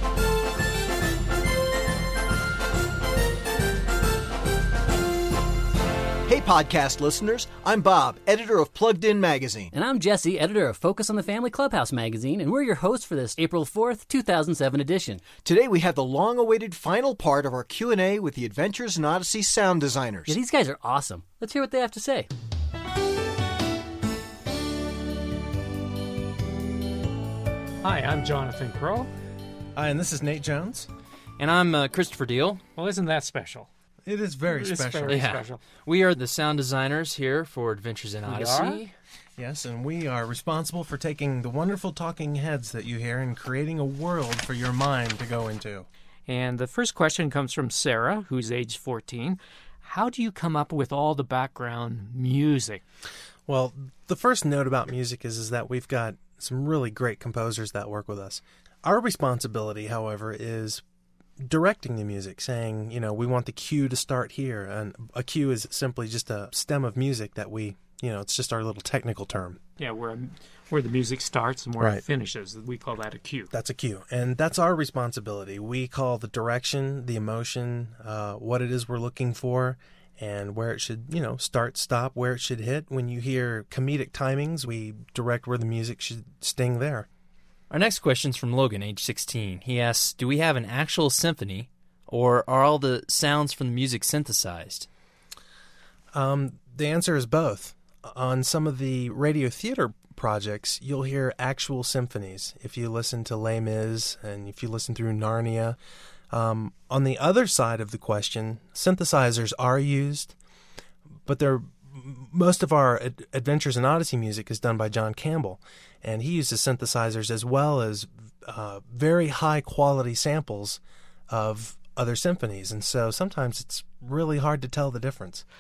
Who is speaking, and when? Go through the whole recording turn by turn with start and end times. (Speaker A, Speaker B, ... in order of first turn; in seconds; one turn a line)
Speaker A: 6.3-9.7
Speaker B: 9.8-15.2
Speaker A: 15.3-20.4
Speaker B: 20.3-22.3
Speaker C: 27.8-29.1
Speaker D: 29.8-30.9
Speaker E: 31.4-32.6
Speaker C: 32.8-33.7
Speaker D: 34.0-35.2
Speaker C: 34.5-35.6
Speaker E: 35.1-38.9
Speaker C: 38.2-38.8
Speaker D: 39.4-45.9
Speaker C: 46.3-52.8
Speaker D: 53.5-60.8
Speaker D: 61.4-69.6
Speaker C: 69.8-73.5
Speaker D: 73.5-87.1
Speaker E: 87.7-94.9
Speaker D: 96.1-105.8
Speaker D: 106.3-110.4
Speaker D: 111.3-125.5